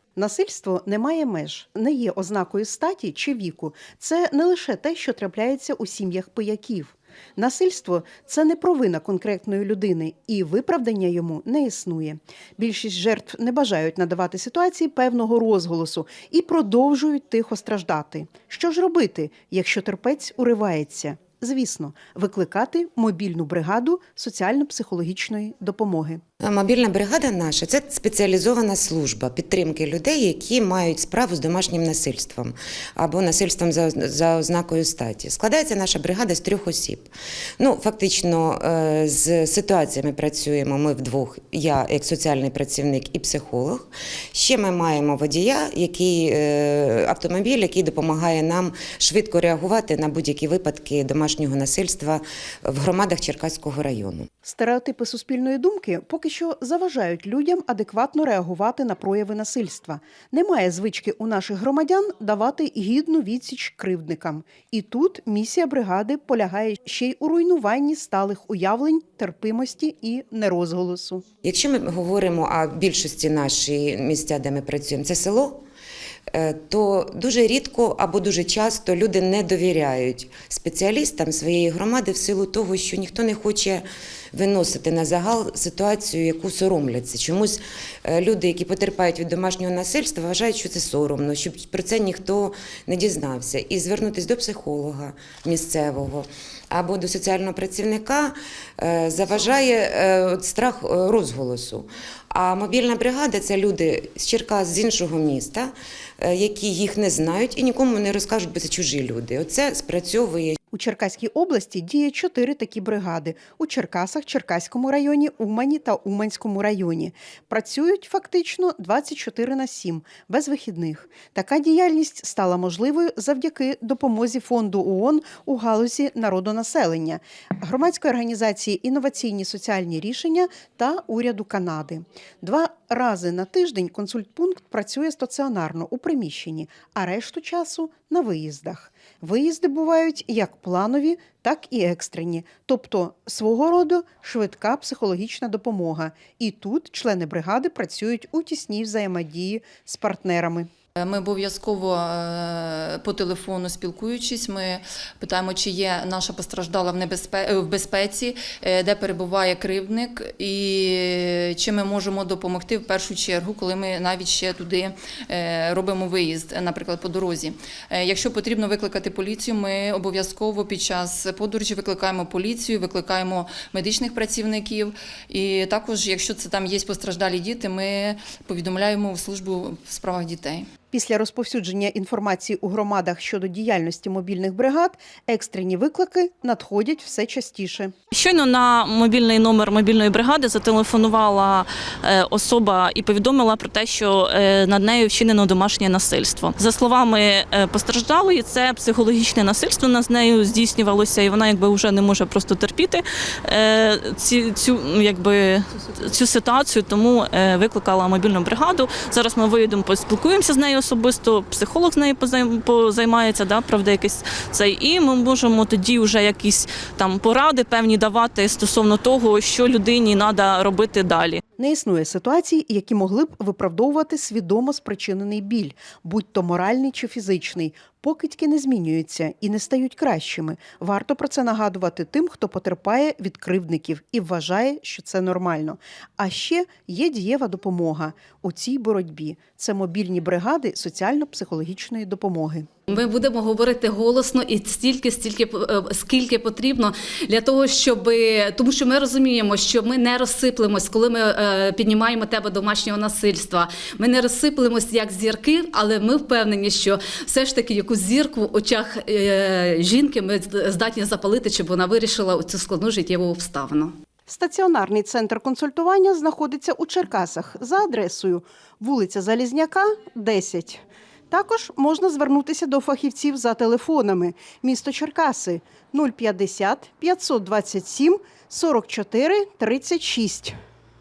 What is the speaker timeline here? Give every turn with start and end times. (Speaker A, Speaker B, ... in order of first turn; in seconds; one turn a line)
Speaker A: 0.2-26.2
Speaker B: 26.4-54.3
Speaker A: 54.4-71.2
Speaker B: 71.4-75.7
Speaker B: 76.3-110.6
Speaker A: 110.7-150.7
Speaker C: 151.0-180.7
Speaker A: 180.9-187.9
Speaker D: 188.1-221.4
Speaker A: 221.6-242.7
Speaker E: 242.9-263.9
Speaker A: 264.3-280.6